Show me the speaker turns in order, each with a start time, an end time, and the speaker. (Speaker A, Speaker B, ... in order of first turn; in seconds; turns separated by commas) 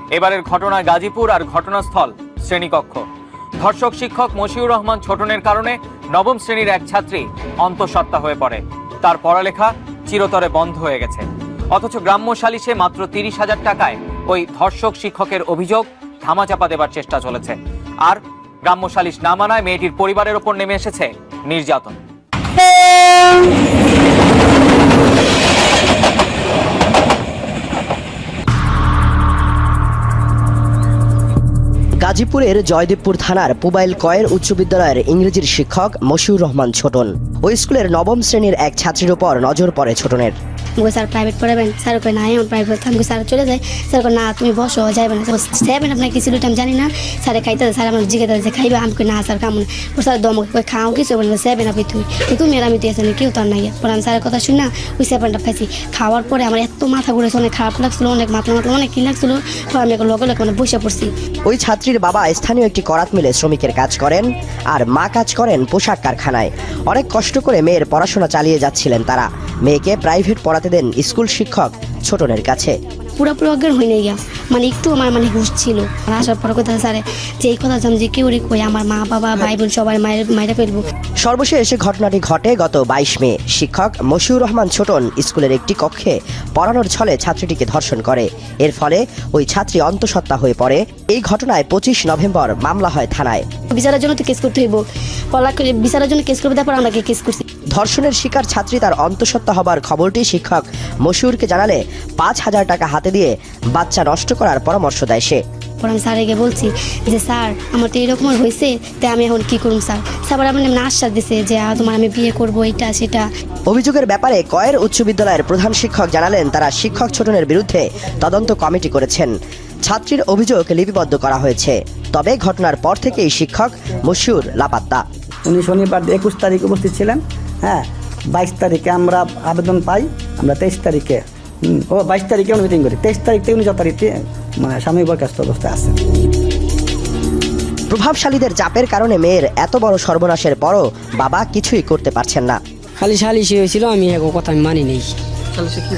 Speaker A: 0.1-3.0, Speaker A: 3.6-22.0, Speaker B: 32.0-40.4, Speaker C: 40.8-61.1, Speaker B: 61.5-72.8, Speaker C: 73.2-80.8, Speaker B: 81.2-93.5, Speaker C: 93.7-94.8, Speaker C: 95.3-97.4, Speaker B: 97.8-105.4, Speaker C: 105.8-113.2, Speaker B: 113.7-119.3, Speaker B: 119.9-125.0, Speaker D: 125.5-127.8, Speaker D: 128.4-135.9, Speaker B: 137.9-142.6, Speaker E: 143.0-145.1